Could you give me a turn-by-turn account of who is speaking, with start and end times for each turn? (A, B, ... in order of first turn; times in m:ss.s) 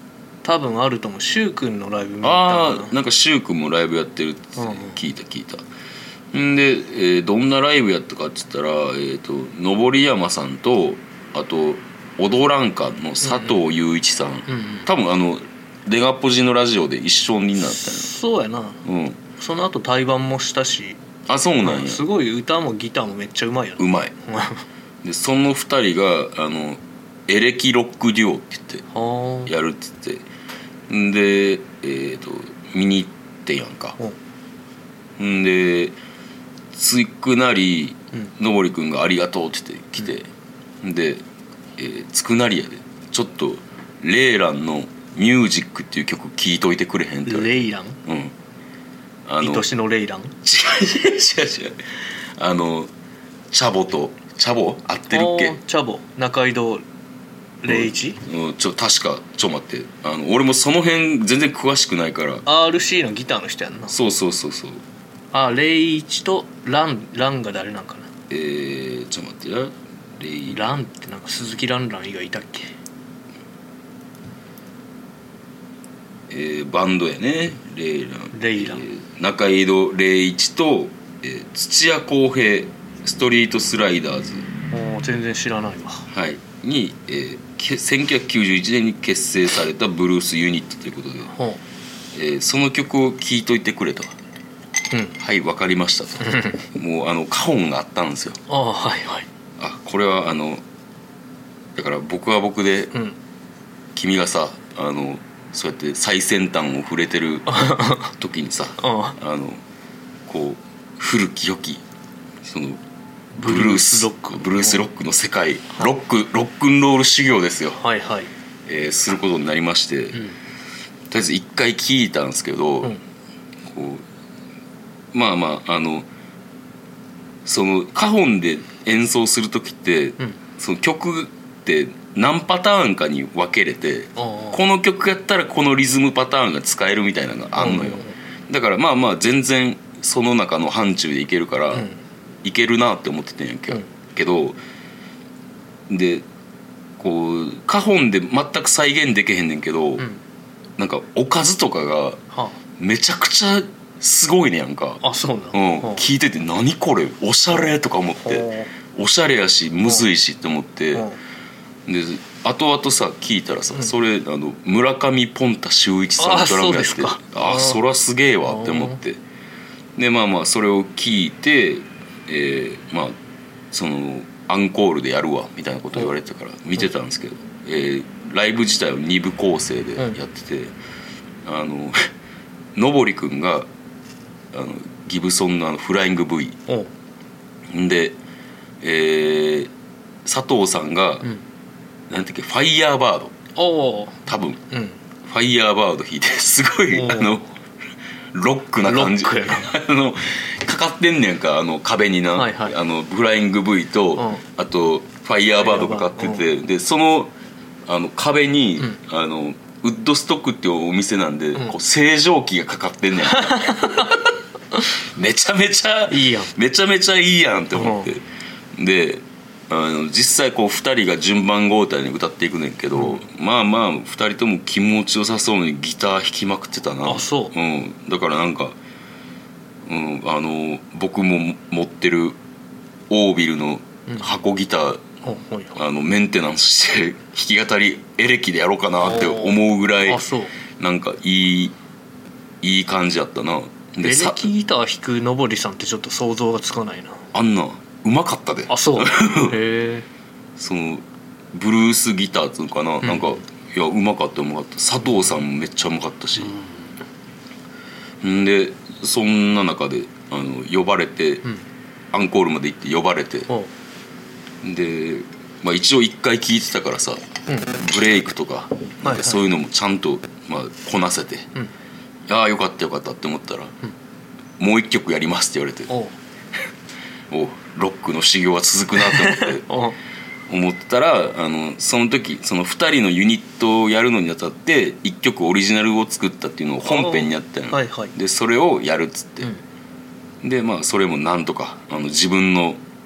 0:00.4-0:03.0 A
0:02.2-0:05.6 B
0:04.6-0:05.0 A
0:06.3-0:18.1 B
0:13.2-0:13.6 A
0:14.5-0:14.9 A
0:17.8-0:18.8 A
0:18.8-0:19.2 B
0:19.4-0:21.0 A
0:21.3-0:22.0 B
0:21.6-0:24.6 A
0:23.8-0:24.1 B
0:25.0-0:28.8 B
0:28.9-0:29.5 A
0:29.5-0:30.2 B
0:30.9-0:34.0 B
0:35.2-0:36.0 B
0:36.7-0:40.3 B
0:40.8-0:41.2 B
0:41.8-0:47.5 B
0:47.3-0:48.0 A
0:48.1-0:48.3 B
0:49.3-0:49.6 B
0:49.4-0:50.3 A
0:50.4-0:51.8 B
0:52.4-0:52.9 B
0:53.5-0:55.6 B
0:55.1-0:56.8 A
0:57.6-0:58.2 A
0:57.7-1:02.4 B
1:02.5-1:04.0 A
1:03.9-1:04.8 B
1:05.3-1:08.1 A
1:08.3-1:10.7 B
1:10.5-1:12.7 A
1:16.3-1:24.5 B
1:18.3-1:18.9 A
1:24.7-1:26.1 A
1:26.1-1:31.3 B
1:31.3-1:31.6 A
1:32.1-1:34.1 B
1:34.9-1:35.2 A
1:35.2-1:38.4 B
1:36.2-1:36.6 A
1:38.5-1:39.3 A
1:39.6-1:40.6 B
1:41.8-1:42.9 B
1:44.0-1:49.6 B
1:47.5-1:48.1 A
1:48.8-1:49.2 A
1:50.3-1:51.8 B
1:52.4-1:52.8 B
1:53.4-1:54.8 A
1:53.4-1:57.8 B
1:57.8-1:58.3 A
1:58.7-2:00.2 B
2:01.1-2:03.0 B
2:03.7-2:04.0 B
2:05.1-2:06.1 B
2:07.4-2:21.9 B
2:14.2-2:14.6 A
2:17.6-2:18.2 A
2:21.7-2:22.0 A
2:22.4-2:24.6 B
2:25.9-2:26.3 B
2:27.0-2:30.0 B
2:30.8-2:32.2 B
2:32.3-2:32.6 A
2:32.8-2:35.0 B
2:35.0-2:36.0 A
2:35.5-2:41.0 B
2:38.2-2:38.7 A
2:41.9-2:49.2 B
2:46.2-2:47.8 A
2:48.5-2:49.0 A
2:50.0-2:53.1 B
2:53.7-3:00.8 B
3:01.4-3:02.1 B
3:02.8-3:03.7 B
3:04.5-3:06.6 B
3:07.7-3:08.2 B
3:08.8-3:09.7 B
3:10.2-3:11.3 B
3:12.1-3:13.3 B
3:13.6-3:15.0 A
3:14.3-3:14.6 B
3:15.3-3:17.4 B
3:16.9-3:17.5 A
3:18.3-3:27.3 B
3:18.8-3:19.7 A
3:22.4-3:22.8 A
3:24.2-3:24.4 A
3:25.6-3:26.5 A
3:27.9-3:34.3 B
3:33.3-3:34.2 A
3:34.9-3:48.8 B
3:36.1-3:36.5 A
3:37.8-3:38.1 A
3:43.0-3:43.2 A
3:47.0-3:47.5 A
3:49.8-3:52.4 B
3:53.1-3:55.0 B
3:55.2-3:55.8 A
3:55.8-4:00.2 B
3:59.0-4:00.5 A
4:00.8-4:01.8 B
4:02.6-4:04.5 B
4:04.0-4:07.2 A
4:07.3-4:09.6 B
4:08.7-4:10.1 A
4:10.6-4:16.6 B
4:13.0-4:13.4 A
4:16.4-4:17.0 A
4:18.2-4:21.4 B
4:22.1-4:23.5 B
4:24.6-4:31.5 B
4:27.5-4:27.8 A
4:29.0-4:29.4 A
4:32.3-4:33.8 B
4:34.6-4:35.9 B
4:35.9-4:36.2 A
4:37.3-4:39.7 B
4:39.0-4:40.0 A
4:40.5-4:49.5 B
4:46.8-4:48.1 A
4:50.4-4:52.8 B